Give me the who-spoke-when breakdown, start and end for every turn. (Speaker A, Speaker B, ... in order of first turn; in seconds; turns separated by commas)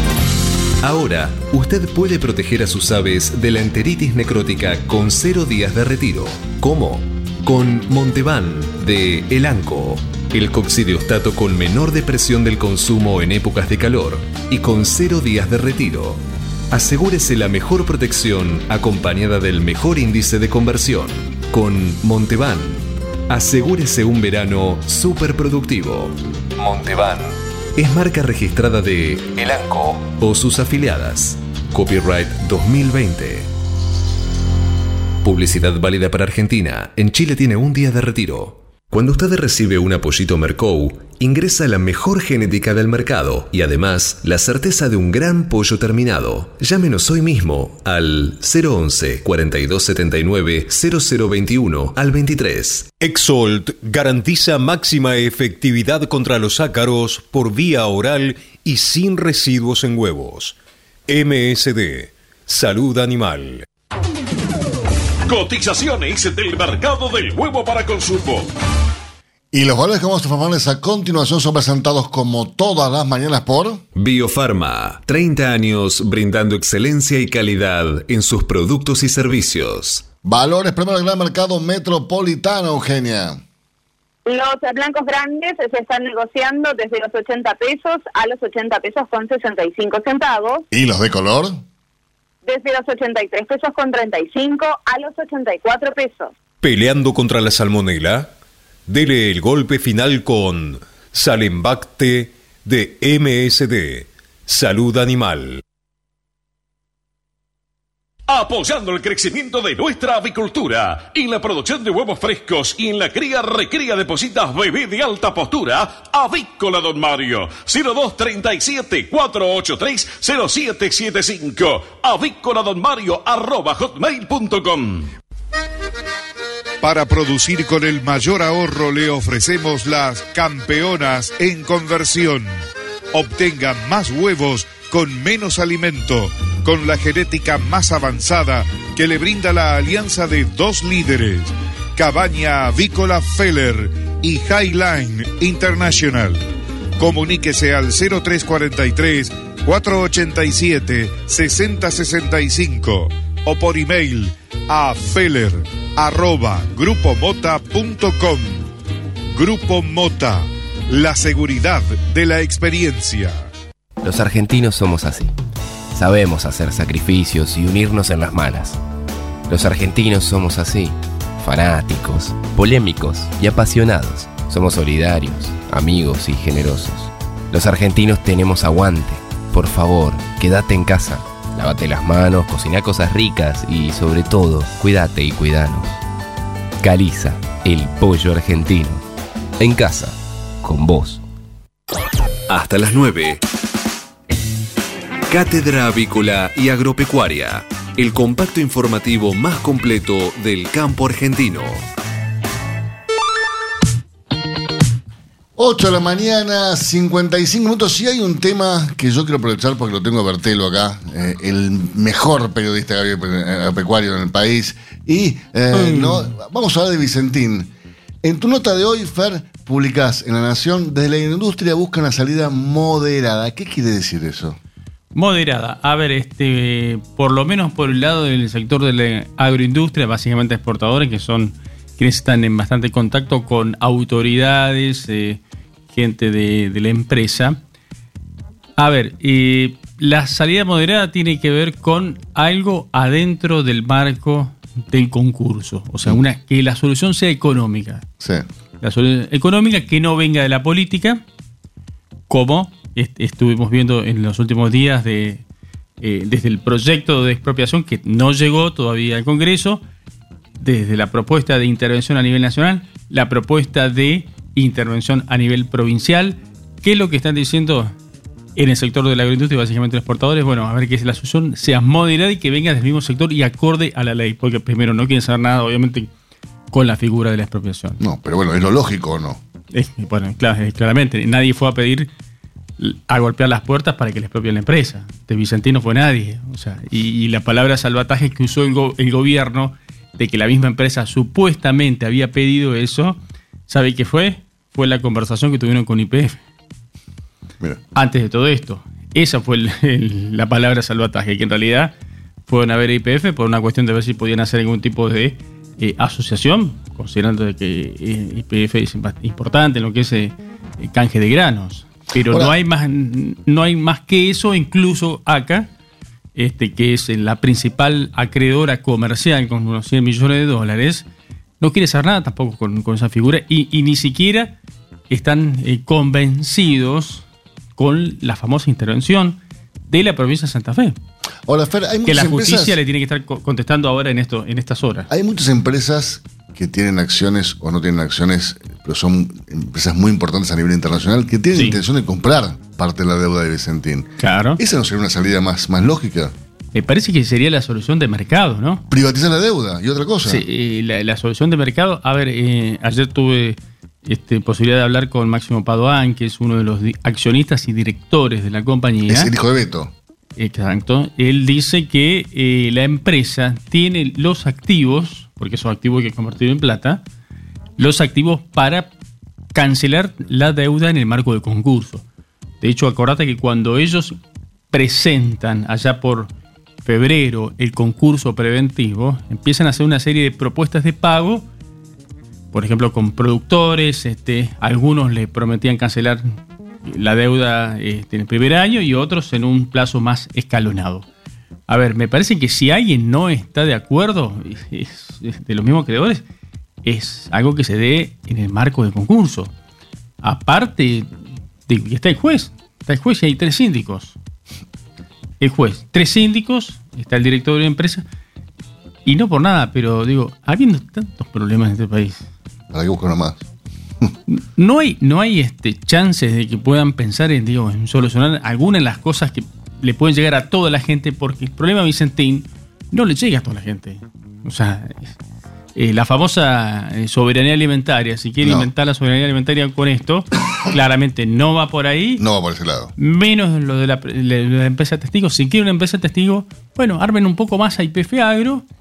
Speaker A: 0.8-33.5, Speaker A: 35.2-52.9, Speaker B: 53.0-60.5, Speaker B: 61.1-63.6, Speaker C: 65.3-68.5, Speaker D: 69.5-73.8, Speaker A: 73.9-80.0, Speaker D: 80.2-83.4, Speaker E: 84.2-90.7, Speaker D: 90.7-91.6, Speaker E: 92.4-96.3, Speaker B: 96.6-98.3, Speaker B: 98.9-105.6, Speaker C: 108.3-125.1, Speaker F: 126.8-132.5, Speaker F: 133.1-146.4, Speaker F: 147.0-158.7, Speaker F: 159.3-163.4, Speaker G: 164.0-165.3, Speaker G: 165.9-168.8, Speaker G: 169.5-186.0, Speaker G: 186.8-189.0, Speaker G: 189.6-191.2, Speaker A: 192.5-193.4, Speaker A: 195.3-201.8, Speaker D: 205.6-217.7, Speaker H: 215.7-216.2, Speaker D: 218.2-224.6, Speaker H: 225.1-235.4, Speaker H: 235.9-237.6, Speaker H: 238.8-248.1, Speaker D: 248.2-248.4, Speaker H: 248.8-251.2, Speaker H: 252.3-255.4, Speaker H: 256.0-259.8, Speaker H: 260.6-267.9, Speaker H: 268.6-276.1, Speaker H: 276.7-278.0, Speaker D: 278.0-279.4, Speaker H: 279.7-282.1, Speaker H: 282.8-296.4, Speaker H: 297.9-301.9, Speaker H: 302.4-315.7, Speaker D: 312.2-312.5, Speaker H: 316.3-321.1, Speaker H: 321.6-324.6, Speaker H: 325.1-331.0, Speaker D: 331.5-332.8, Speaker H: 332.1-335.1, Speaker D: 335.1-346.3, Speaker H: 341.5-341.8, Speaker H: 344.2-344.6, Speaker H: 346.7-348.8, Speaker D: 348.9-350.4, Speaker H: 350.2-359.3, Speaker D: 359.1-359.9, Speaker H: 360.4-367.0, Speaker H: 367.8-368.9, Speaker H: 369.5-372.0, Speaker H: 372.6-374.2, Speaker H: 374.7-376.3, Speaker H: 376.8-381.5, Speaker H: 382.5-391.1, Speaker H: 391.7-396.2, Speaker H: 396.8-399.5, Speaker H: 400.2-401.1, Speaker H: 401.6-404.1, Speaker H: 405.4-408.1, Speaker H: 409.0-412.3, Speaker D: 412.7-413.4, Speaker H: 414.3-425.1, Speaker H: 425.7-432.2, Speaker D: 428.4-428.7, Speaker D: 432.2-432.9, Speaker H: 433.0-438.6